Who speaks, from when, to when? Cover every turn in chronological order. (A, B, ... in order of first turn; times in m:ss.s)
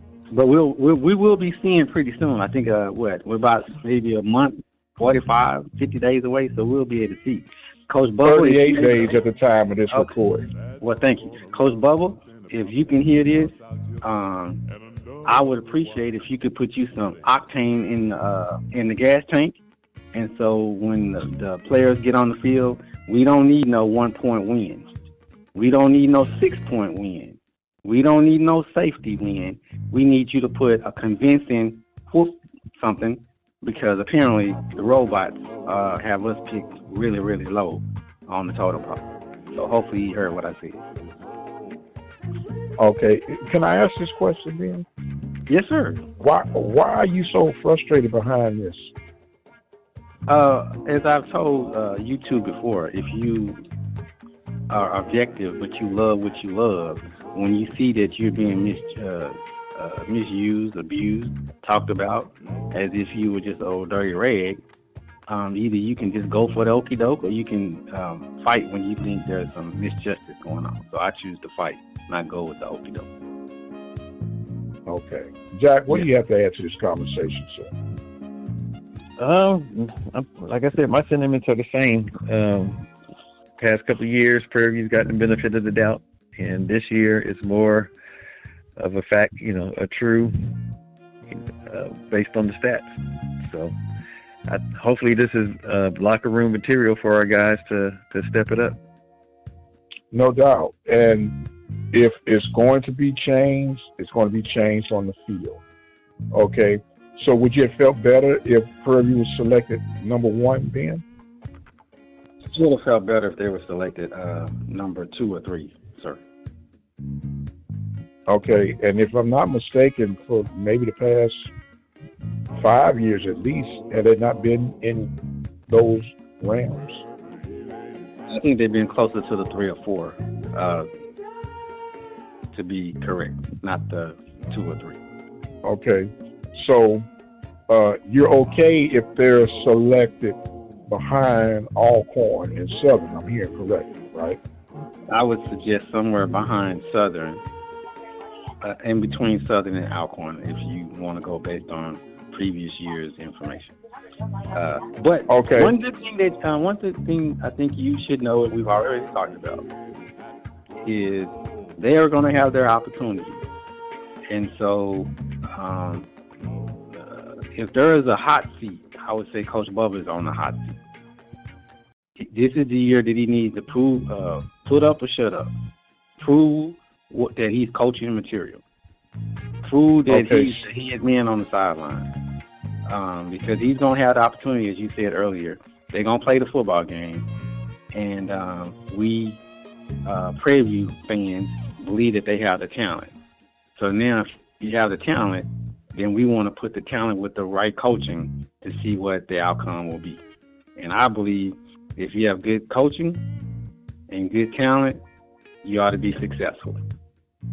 0:00.3-0:09.2 A
0:08.2-0:10.5 B
0:10.8-0:14.6 A
0:15.2-0:19.6 A
0:20.1-0:24.9 A
0:25.6-0:40.8 A
0:42.8-0:44.9 B
0:45.5-0:46.0 A
0:46.2-0:48.9 B
0:50.3-0:53.6 A
0:54.7-1:04.6 A
1:05.3-1:13.1 A
1:14.9-1:17.7 B
1:19.2-1:22.9 C
1:23.6-1:27.9 C
1:28.8-1:30.5 C
1:31.3-1:32.9 C
1:33.4-1:33.8 C
1:34.5-1:38.8 C
1:40.1-1:41.4 B
1:41.9-1:45.6 B
1:46.3-1:51.0 B
1:52.5-1:56.2 A
1:58.3-2:01.5 B
2:02.6-2:05.1 B
2:05.7-2:07.1 B
2:08.3-2:10.9 A
2:12.5-2:15.0 A
2:15.6-2:17.1 B
2:17.7-2:20.4 B
2:20.9-2:24.4 B
2:25.1-2:27.4 A
2:28.6-2:33.8 A
2:34.5-2:39.7 A
2:35.3-2:35.7 B
2:40.8-2:43.4 A
2:44.3-2:46.1 A
2:46.9-2:50.8 A
2:52.2-2:55.5 A
2:56.2-2:58.6 A
2:59.6-3:02.1 A
3:00.1-3:00.6 B
3:02.9-3:07.3 A
3:07.9-3:09.4 A
3:10.0-3:13.1 A
3:13.8-3:20.2 A
3:20.8-3:23.2 A
3:24.1-3:25.0 A
3:25.6-3:26.8 A